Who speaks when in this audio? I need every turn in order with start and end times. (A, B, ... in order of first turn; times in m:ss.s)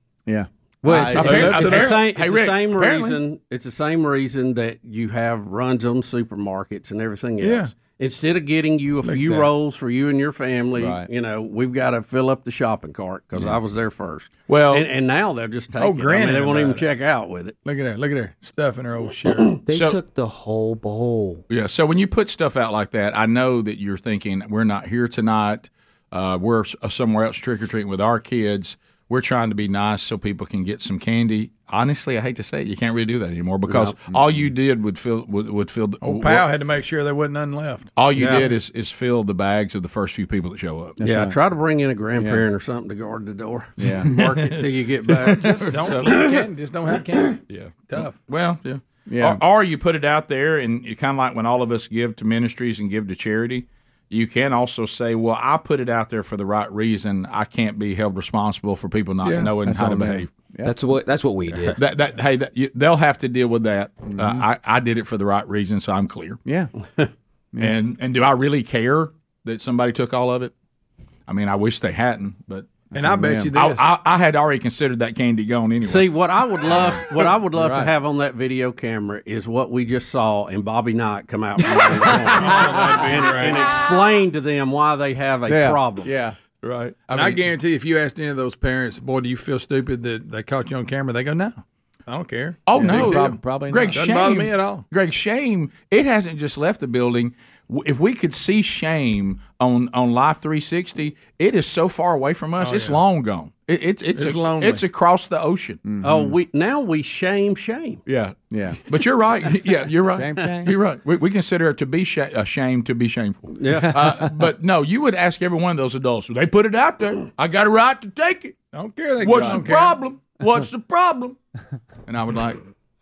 0:00.3-0:01.7 A
0:00.8-0:17.6 B
0:01.1-0:03.2 C
0:01.2-0:02.0 D
0:07.4-0:07.7 D
0:09.0-0:09.5 D
0:10.8-0:11.1 A
0:14.5-0:14.9 C
0:15.8-0:16.8 D
0:17.6-0:19.6 D
0:19.7-0:21.4 E
0:19.7-0:20.0 C
0:21.5-0:36.5 C
0:33.7-0:34.0 B
0:34.0-0:34.5 A
0:36.0-0:38.4 D
0:37.9-0:41.0 C
0:38.2-0:38.5 B
0:41.0-0:41.4 A
0:41.0-0:46.4 B
0:42.2-0:42.4 A
0:43.8-0:44.1 A
0:45.2-0:48.2 D
0:45.7-0:46.2 C
0:47.5-1:00.3 C
0:49.1-0:49.4 A
0:59.2-0:59.5 D
0:59.4-1:00.8 A
1:00.6-1:01.8 E
1:01.5-1:06.4 C
1:04.1-1:04.5 A
1:06.4-1:06.7 A
1:07.6-1:10.5 C
1:11.3-1:12.7 C
1:12.9-1:13.6 A
1:13.0-1:13.8 D
1:13.5-1:16.1 C
1:15.8-1:26.1 B
1:17.5-1:17.9 A
1:22.3-1:23.7 D
1:25.5-1:26.4 A
1:26.6-1:27.3 C
1:27.1-1:33.4 D
1:32.6-1:45.8 C
1:32.7-1:34.1 A
1:33.9-1:34.8 D
1:42.6-1:43.0 D
1:44.1-1:44.8 D
1:45.8-1:46.4 A
1:46.0-1:48.0 B
1:48.0-1:58.6 C
1:48.5-1:48.8 A
1:50.1-1:50.8 A
1:53.5-1:54.0 B
1:53.7-1:54.4 A
1:58.7-1:59.9 D
1:59.2-2:01.4 C
1:59.3-1:59.6 A
2:02.1-2:02.6 C